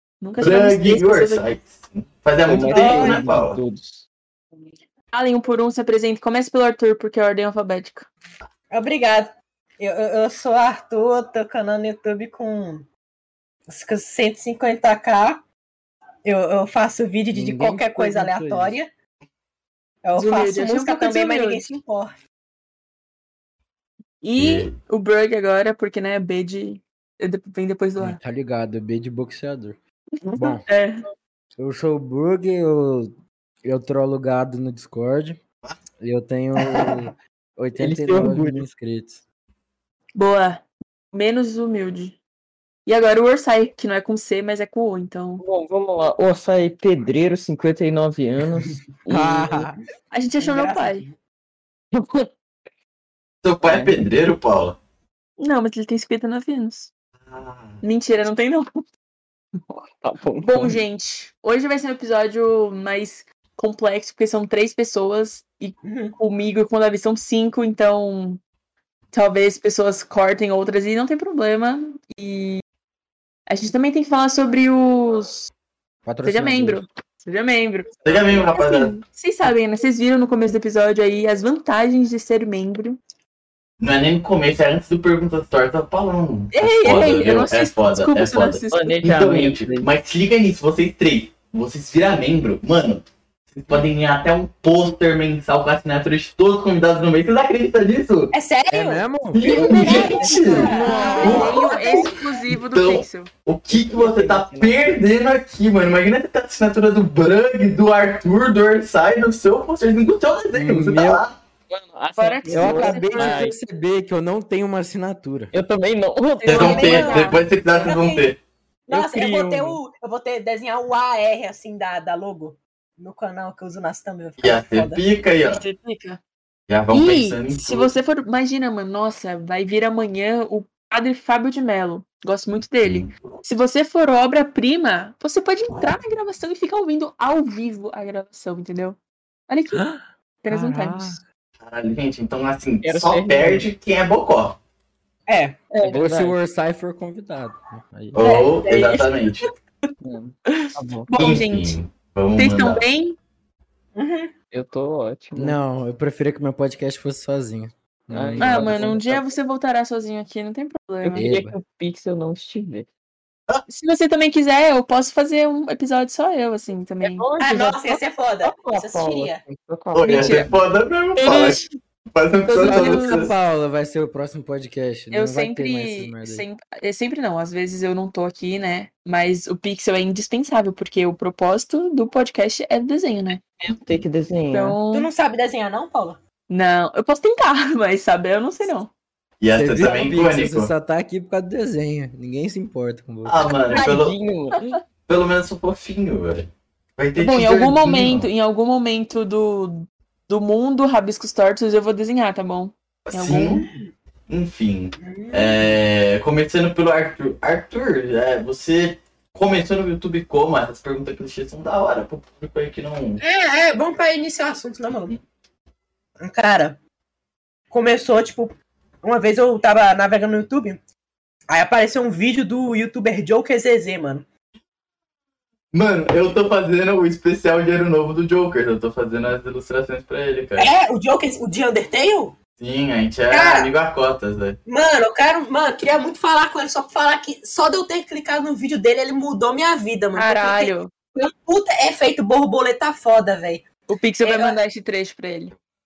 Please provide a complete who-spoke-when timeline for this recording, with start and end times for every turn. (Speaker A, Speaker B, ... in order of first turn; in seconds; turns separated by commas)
Speaker A: 0.2-1.4, Speaker B: 0.4-3.6, Speaker C: 2.4-4.1, Speaker D: 2.7-3.2, Speaker A: 5.1-8.1, Speaker D: 8.7-12.9, Speaker D: 13.7-15.4, Speaker D: 16.2-18.9, Speaker E: 17.3-18.8, Speaker D: 20.0-22.1, Speaker A: 20.1-21.6, Speaker A: 24.2-28.2, Speaker B: 24.4-24.7, Speaker E: 28.0-29.8, Speaker A: 30.2-31.0, Speaker E: 30.4-30.6, Speaker E: 31.6-33.1, Speaker E: 33.6-35.4, Speaker E: 36.0-39.2, Speaker C: 37.8-38.6, Speaker A: 40.2-42.2, Speaker A: 42.9-45.4, Speaker C: 45.4-49.7, Speaker E: 49.1-49.8, Speaker A: 50.1-51.0, Speaker D: 50.4-51.1, Speaker C: 51.9-52.3, Speaker B: 53.4-54.8, Speaker C: 53.6-54.0, Speaker A: 55.4-56.9, Speaker B: 57.2-57.8, Speaker A: 57.8-58.8, Speaker C: 59.7-60.8, Speaker A: 60.4-68.4, Speaker D: 65.8-66.2, Speaker A: 69.1-72.6, Speaker A: 73.5-75.5, Speaker E: 76.0-76.8, Speaker A: 76.2-77.9, Speaker C: 78.0-78.5, Speaker B: 78.0-79.0, Speaker A: 78.5-83.0, Speaker B: 83.8-98.3, Speaker A: 86.5-89.0, Speaker C: 88.7-89.9, Speaker D: 98.3-102.1, Speaker E: 98.7-100.2, Speaker B: 99.3-111.4, Speaker C: 99.7-102.0, Speaker A: 99.7-103.3, Speaker C: 103.7-105.0, Speaker E: 110.5-111.2, Speaker C: 111.7-113.6, Speaker A: 112.2-113.5, Speaker E: 112.5-115.5, Speaker C: 115.5-117.1, Speaker A: 116.4-117.9, Speaker B: 116.5-118.4, Speaker D: 116.5-118.2, Speaker D: 118.9-125.0, Speaker C: 118.9-119.8, Speaker B: 124.4-125.6, Speaker A: 125.4-126.2, Speaker B: 126.7-127.9, Speaker A: 126.9-139.0, Speaker B: 132.8-133.2, Speaker A: 139.5-139.8, Speaker E: 139.7-141.2, Speaker A: 140.4-141.2, Speaker B: 141.6-144.6, Speaker C: 142.8-143.7, Speaker D: 145.3-145.6, Speaker A: 145.7-146.0, Speaker C: 145.8-146.4, Speaker E: 145.8-148.3, Speaker B: 148.1-149.5, Speaker D: 148.2-149.2, Speaker A: 148.7-149.0, Speaker C: 150.0-151.1, Speaker A: 150.5-151.8, Speaker B: 151.1-152.8, Speaker A: 152.4-153.2, Speaker D: 153.9-154.3, Speaker C: 154.5-155.6, Speaker E: 155.3-159.0, Speaker C: 158.1-159.3, Speaker A: 158.4-161.3, Speaker C: 161.0-162.9, Speaker E: 161.1-161.6, Speaker A: 163.7-167.3, Speaker C: 167.0-170.5, Speaker D: 167.4-169.4, Speaker B: 169.9-171.6, Speaker A: 170.0-170.6, Speaker C: 171.2-171.6, Speaker B: 172.1-173.3, Speaker A: 172.5-173.3, Speaker E: 172.6-176.4, Speaker A: 175.1-183.4, Speaker C: 183.6-184.8, Speaker A: 184.5-185.1, Speaker D: 184.9-186.2, Speaker A: 186.5-188.9, Speaker B: 189.4-190.7, Speaker E: 189.5-193.5, Speaker B: 193.2-194.1, Speaker C: 193.7-194.8, Speaker B: 195.1-198.3, Speaker A: 197.2-203.6, Speaker B: 203.1-203.6, Speaker D: 203.5-203.9, Speaker B: 204.3-213.2, Speaker D: 205.0-205.7, Speaker D: 213.2-215.1, Speaker D: 216.2-216.8, Speaker D: 217.7-220.8, Speaker D: 221.5-224.2, Speaker B: 225.7-230.7, Speaker D: 230.6-232.3, Speaker B: 232.6-234.6, Speaker D: 233.3-233.7, Speaker D: 234.7-243.7, Speaker A: 240.1-240.9, Speaker A: 243.9-245.5, Speaker D: 244.2-244.6